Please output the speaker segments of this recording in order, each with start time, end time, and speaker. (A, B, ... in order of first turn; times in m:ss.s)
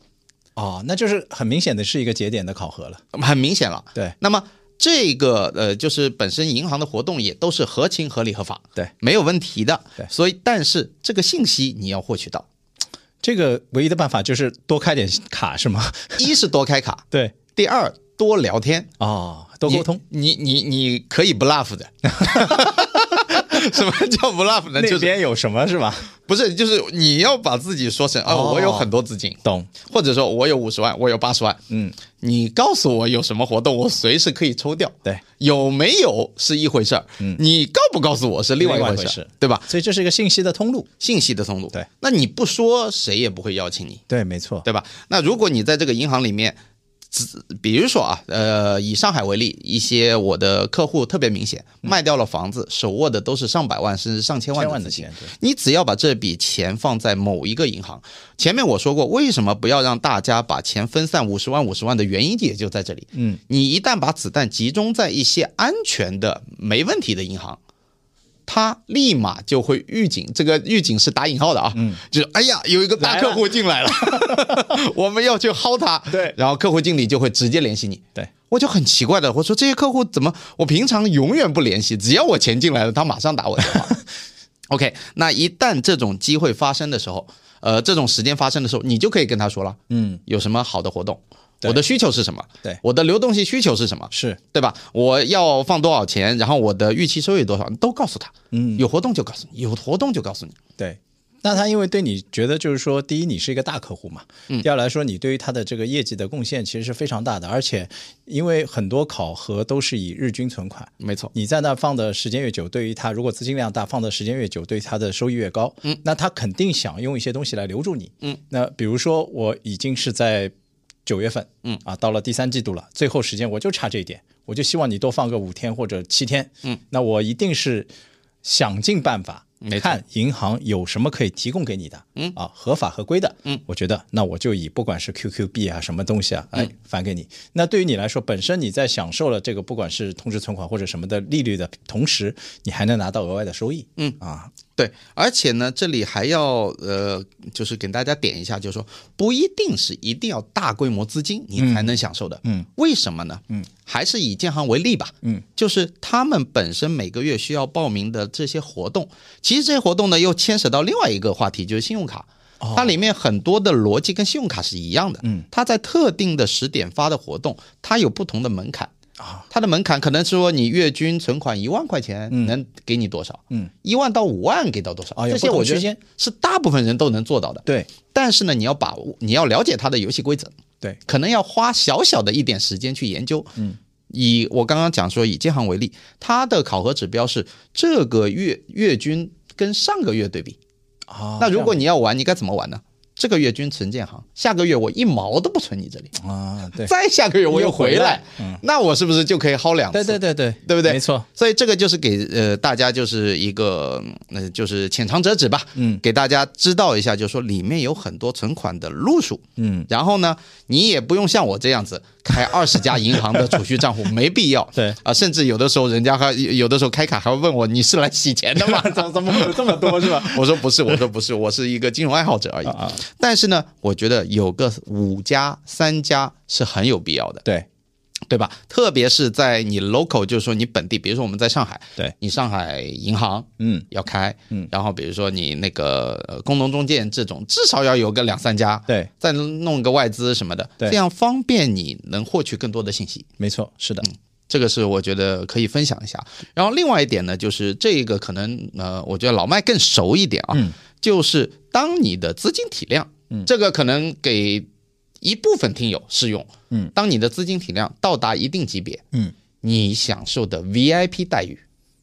0:00.6-0:03.0 A
0:03.1-0:12.4 B
0:13.2-0:16.3 A
0:16.2-0:18.9 B
0:19.0-0:20.0 A
0:19.7-0:25.1 B
0:22.2-0:23.6 A
0:24.8-0:26.1 A
0:26.3-0:31.6 B
0:28.2-0:28.9 A
0:29.4-0:29.7 A
0:31.7-0:31.9 A
0:32.2-0:39.7 B
0:38.6-0:40.9 A
0:41.0-0:44.0 B
0:44.1-0:44.6 A
0:44.6-0:46.6 B
0:47.1-1:07.6 B
0:54.6-0:55.3 A
1:03.1-1:03.4 A
1:08.5-1:24.0 B
1:11.7-1:12.0 A
1:13.0-1:14.7 A
1:24.7-1:40.6 B
1:29.9-1:30.2 A
1:34.1-1:34.4 A
1:38.5-1:38.8 A
1:40.8-2:00.5 A
1:51.0-1:51.3 B
2:01.0-2:07.9 A
2:08.4-2:24.5 A
2:09.6-2:10.0 B
2:24.8-2:48.9 B
2:31.6-2:32.7 A
2:42.6-2:42.9 A
2:49.2-2:49.4 A
2:49.5-3:00.5 B
2:55.2-2:56.0 A
3:01.0-3:03.5 B
3:04.1-3:10.6 B
3:11.1-3:11.8 A
3:11.4-3:16.1 B
3:16.2-3:16.9 A
3:16.8-3:47.4 B
3:17.5-3:18.6 A
3:19.9-3:21.2 A
3:25.8-3:26.0 A
3:29.6-3:29.9 A
3:38.6-3:40.9 A
3:42.6-3:43.0 A
3:48.3-4:03.3 B
3:53.6-3:53.8 A
4:03.4-4:04.1 A
4:04.0-4:14.7 B
4:15.2-4:19.0 B
4:19.6-4:21.6 B